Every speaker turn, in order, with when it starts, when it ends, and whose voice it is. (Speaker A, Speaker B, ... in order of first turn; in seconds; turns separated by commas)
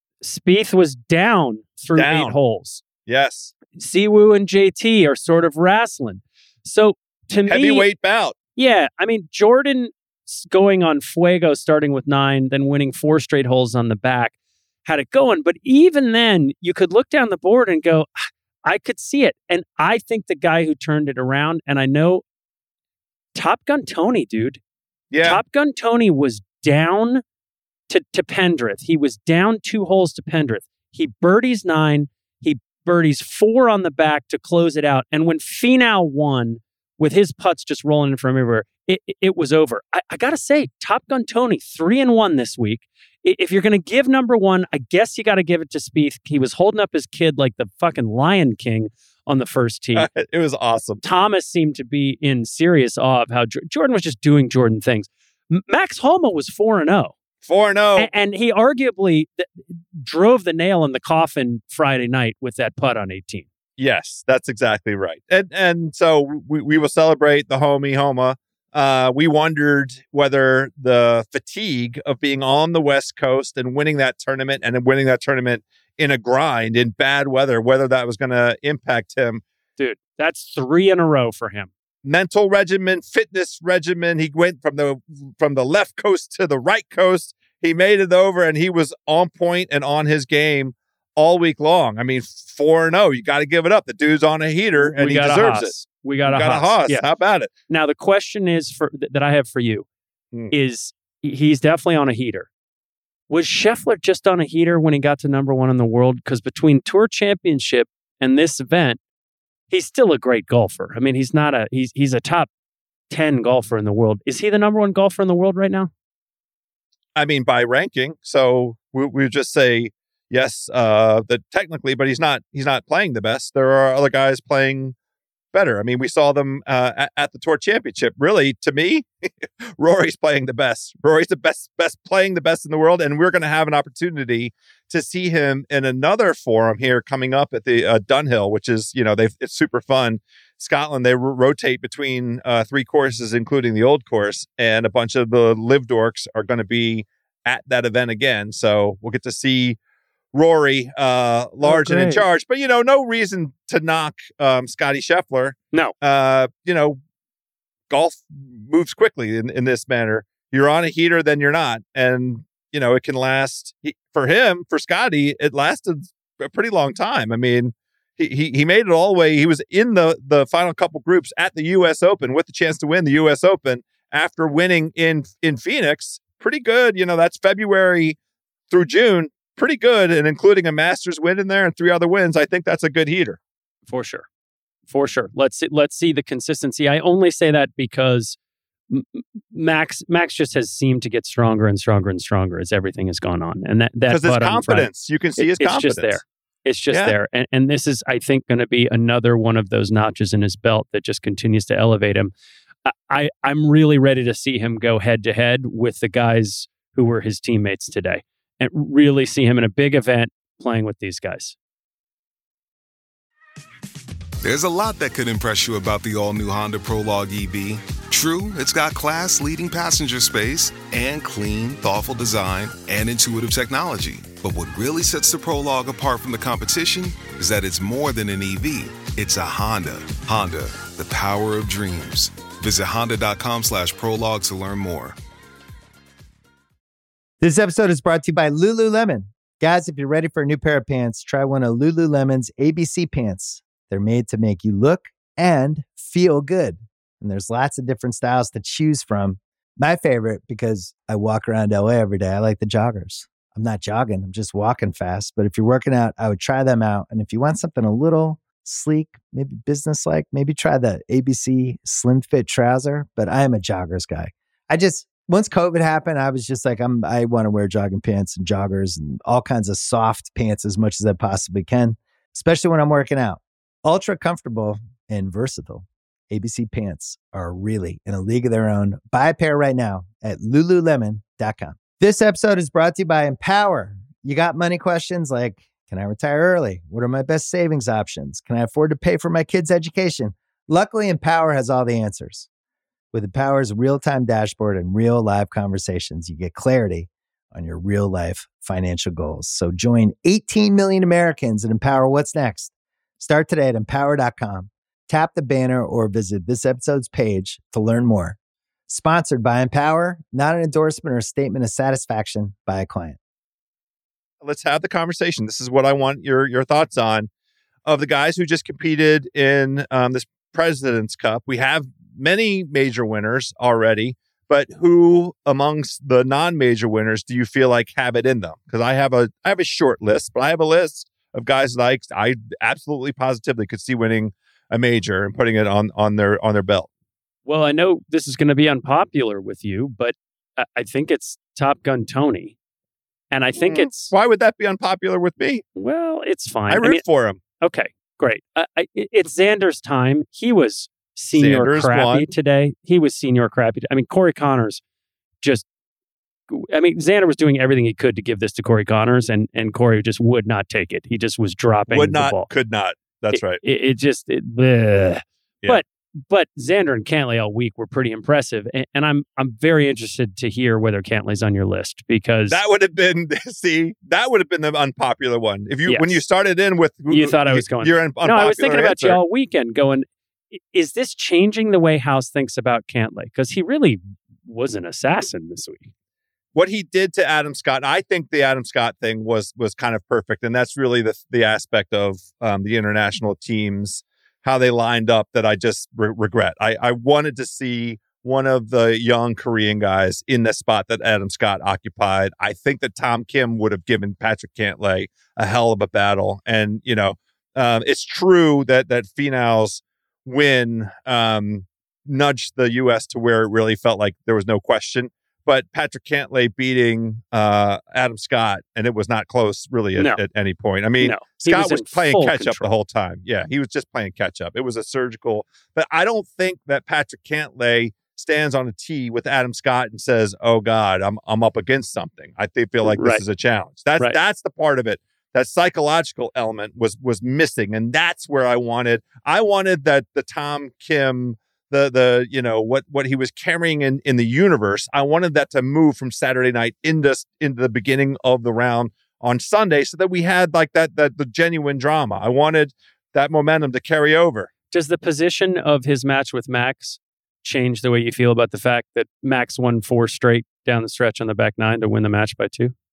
Speaker A: 0.2-2.8, Speaker B: 1.9-2.4, Speaker B: 3.1-3.5, Speaker A: 3.7-7.9, Speaker B: 7.5-8.4, Speaker A: 8.6-14.3, Speaker A: 14.8-22.2, Speaker A: 23.4-24.6, Speaker B: 25.1-25.4, Speaker A: 25.2-27.2, Speaker A: 27.9-50.1, Speaker B: 50.0-51.0, Speaker A: 51.0-57.1, Speaker B: 57.5-58.1, Speaker A: 58.0-63.5, Speaker B: 63.8-79.4, Speaker A: 79.8-81.7, Speaker B: 82.0-95.7, Speaker A: 94.8-97.0, Speaker B: 96.3-97.5, Speaker A: 97.7-99.9, Speaker A: 100.5-102.5, Speaker A: 103.3-109.0, Speaker A: 109.7-112.5, Speaker A: 113.1-115.9, Speaker B: 117.2-125.0, Speaker B: 125.5-129.1, Speaker B: 129.7-149.8, Speaker B: 150.3-157.0, Speaker A: 151.6-152.2, Speaker B: 157.9-178.2, Speaker B: 178.7-183.4, Speaker A: 183.9-184.3, Speaker A: 184.9-188.4, Speaker A: 188.9-202.3, Speaker B: 194.1-196.2, Speaker A: 202.8-211.6, Speaker C: 214.4-235.2, Speaker D: 237.4-292.5, Speaker D: 293.1-308.4, Speaker D: 308.9-313.2, Speaker B: 314.4-317.3, Speaker B: 317.9-336.9, Speaker A: 337.5-342.6, Speaker A: 343.3-344.1, Speaker B: 343.6-345.6, Speaker A: 345.8-347.0, Speaker B: 346.7-347.4, Speaker A: 347.6-354.8, Speaker B: 351.3-352.3, Speaker A: 355.4-355.7, Speaker A: 356.5-362.5, Speaker B: 361.9-363.6, Speaker A: 363.3-372.6, Speaker B: 372.5-379.2, Speaker A: 375.9-376.2, Speaker A: 377.1-385.9, Speaker B: 386.6-454.5, Speaker A: 420.0-420.2, Speaker A: 421.0-422.7, Speaker A: 432.8-433.2, Speaker A: 454.7-462.7